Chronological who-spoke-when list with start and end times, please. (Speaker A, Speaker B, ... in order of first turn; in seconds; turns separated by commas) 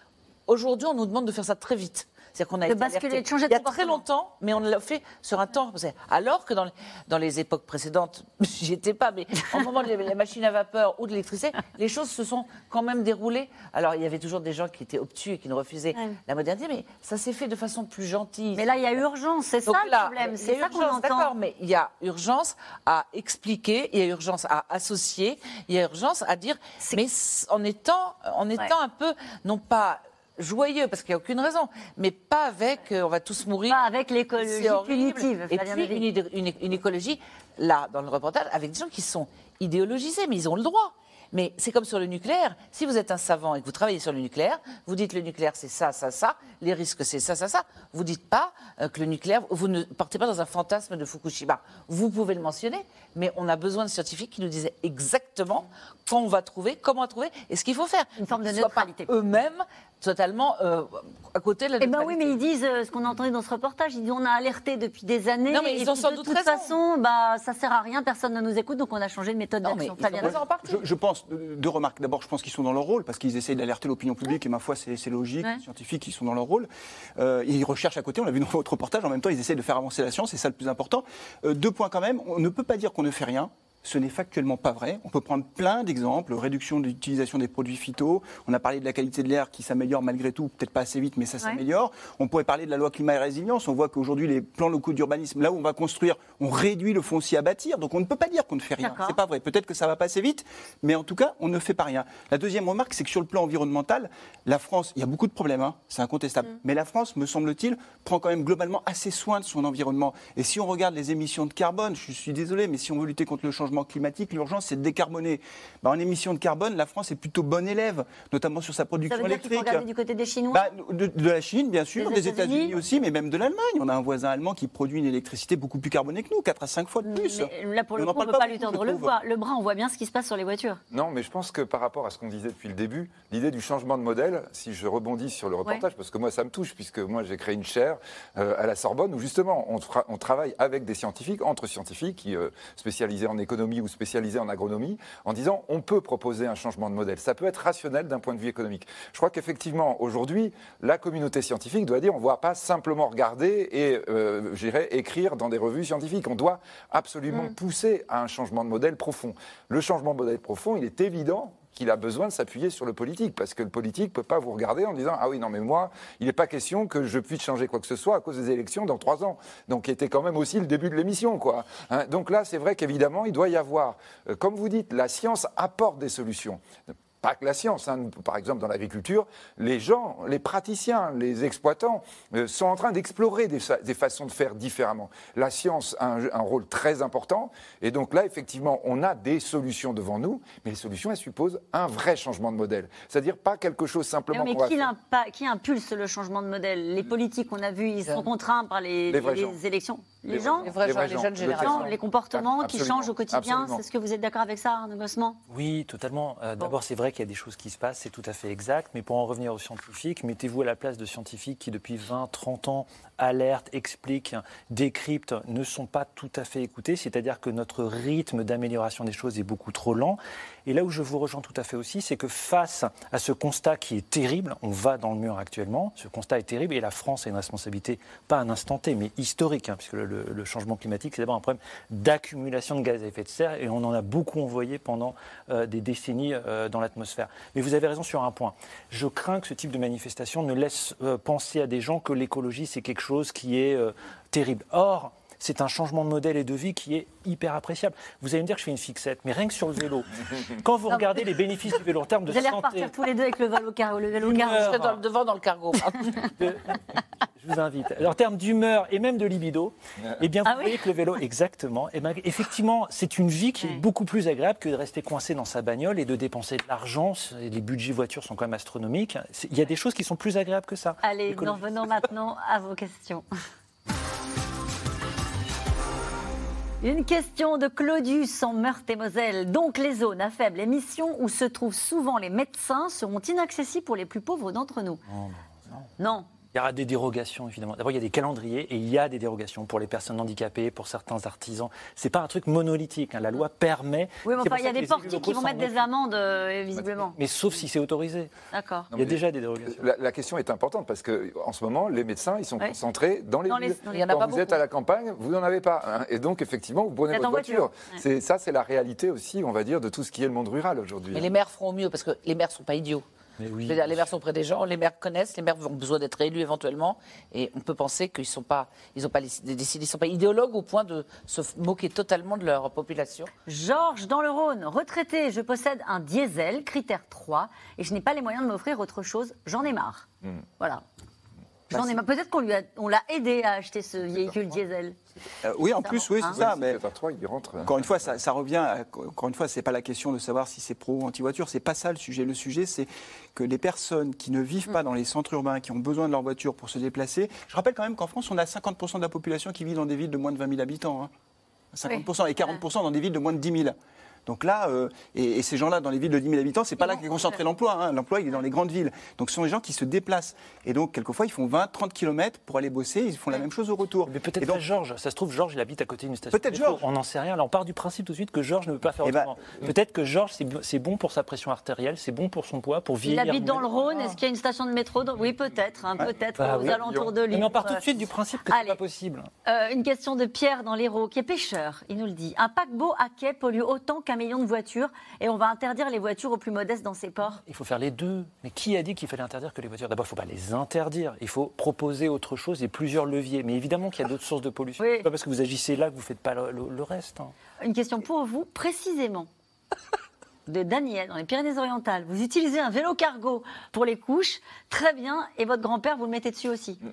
Speaker A: 0.5-19.0, Speaker B: 2.7-4.0, Speaker B: 18.6-21.3, Speaker A: 19.7-62.4, Speaker B: 33.7-36.1, Speaker B: 58.2-59.1, Speaker B: 61.8-70.4, Speaker A: 65.5-66.7, Speaker A: 69.6-70.8, Speaker C: 70.2-119.8, Speaker B: 98.8-99.2, Speaker B: 119.1-120.7, Speaker C: 120.5-129.1, Speaker B: 122.0-122.8, Speaker B: 127.0-130.8, Speaker D: 130.9-176.6, Speaker D: 177.2-194.9, Speaker B: 194.3-200.7, Speaker D: 199.1-199.6, Speaker D: 200.3-203.8, Speaker A: 200.6-202.0, Speaker B: 201.4-205.4, Speaker E: 205.5-252.9, Speaker B: 252.3-254.7, Speaker E: 254.2-255.0, Speaker A: 254.2-256.3, Speaker E: 256.4-256.8, Speaker E: 257.4-271.9, Speaker B: 260.4-260.8, Speaker B: 263.6-263.8, Speaker B: 271.0-273.2, Speaker B: 276.8-285.0, Speaker B: 286.0-286.3, Speaker E: 286.5-295.9, Speaker B: 294.2-297.2, Speaker E: 297.2-298.3, Speaker B: 298.5-298.9, Speaker D: 298.9-311.3, Speaker E: 298.9-299.8, Speaker B: 303.5-304.3, Speaker A: 303.9-304.6, Speaker B: 307.1-308.0, Speaker A: 311.1-313.0, Speaker E: 313.4-314.1, Speaker A: 313.6-323.3, Speaker B: 323.4-330.1, Speaker B: 331.7-334.9, Speaker C: 335.4-336.8, Speaker B: 335.8-336.4, Speaker D: 336.3-338.2, Speaker C: 337.7-351.1, Speaker C: 351.7-364.6, Speaker B: 351.9-352.6, Speaker B: 356.8-357.4, Speaker E: 364.1-374.2, Speaker C: 366.3-366.8, Speaker C: 369.0-369.3, Speaker B: 373.1-377.8, Speaker E: 376.4-379.3, Speaker D: 376.6-377.1, Speaker B: 378.5-378.8, Speaker B: 379.4-387.4, Speaker E: 387.4-397.3, Speaker B: 394.8-395.1, Speaker B: 397.6-399.3, Speaker B: 400.5-406.8